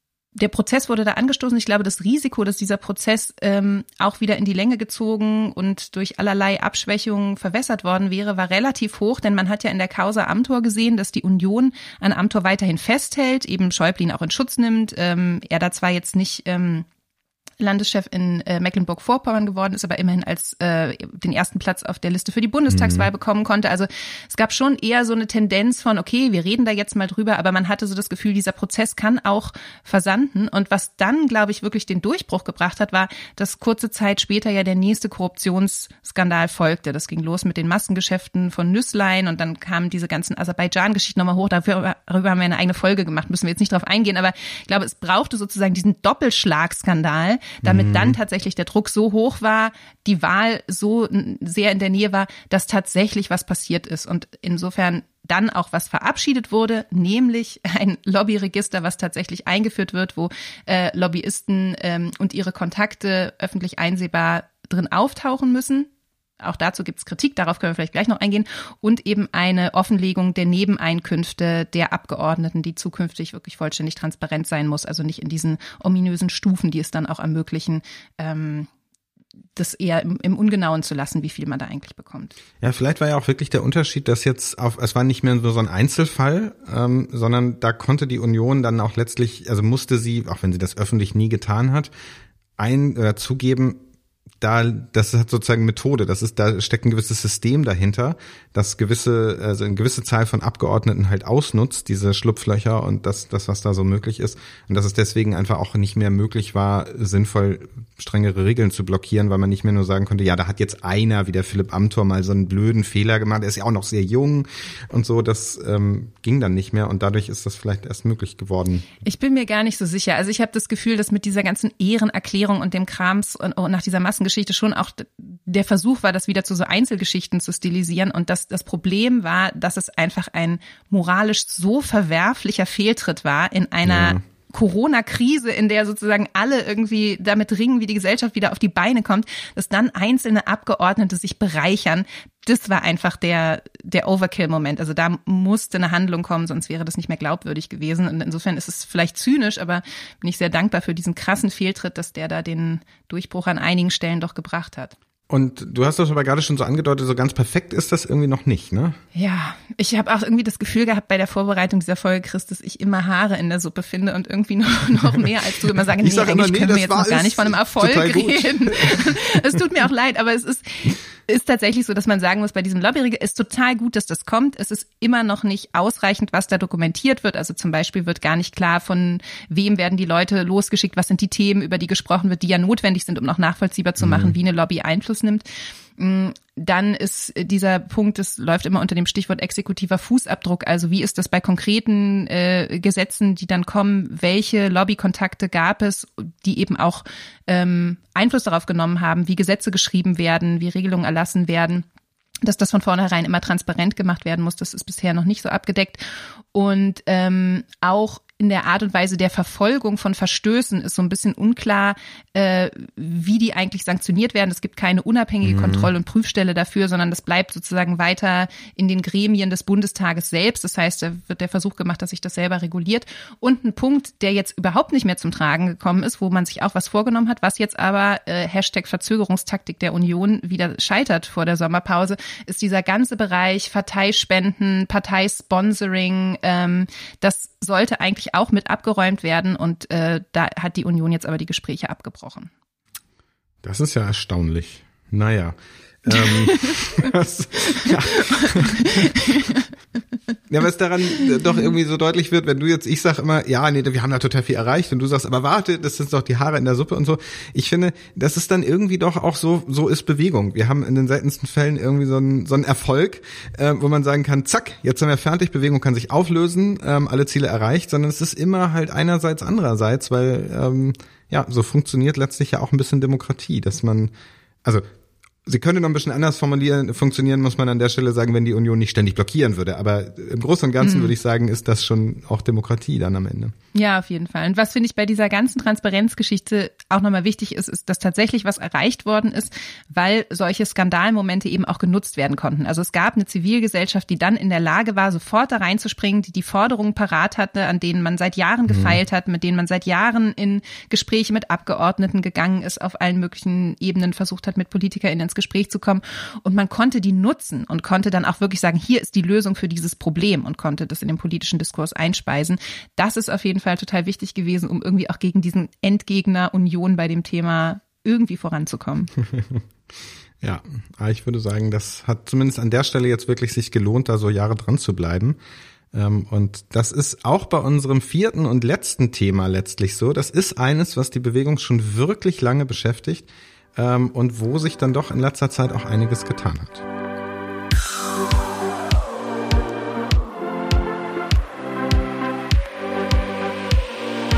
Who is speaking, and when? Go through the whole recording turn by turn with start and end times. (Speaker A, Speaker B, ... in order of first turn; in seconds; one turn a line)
Speaker A: 0.3-16.9
Speaker A: 17.6-65.9
Speaker B: 22.7-23.1
Speaker B: 47.6-48.2
Speaker A: 66.4-78.7
Speaker A: 79.5-82.3
Speaker B: 82.6-91.9
Speaker B: 92.6-93.8
Speaker B: 94.4-118.8
Speaker A: 119.0-154.9
Speaker B: 133.8-134.2
Speaker B: 155.3-159.0
Speaker A: 159.1-185.4
Speaker B: 166.0-169.2
Speaker B: 184.0-184.3
Speaker A: 186.0-201.8
Speaker A: 202.4-206.0
Speaker A: 206.5-242.5
Speaker B: 215.4-215.9
Speaker B: 243.6-249.5
Speaker A: 246.1-246.8
Speaker A: 247.8-249.6
Speaker B: 250.5-274.1
Speaker B: 275.4-283.5
Speaker A: 280.8-281.1
Speaker A: 283.7-319.1
Speaker B: 298.7-299.0
Speaker B: 319.3-319.6
Speaker B: 320.4-325.4
Speaker B: 325.9-336.8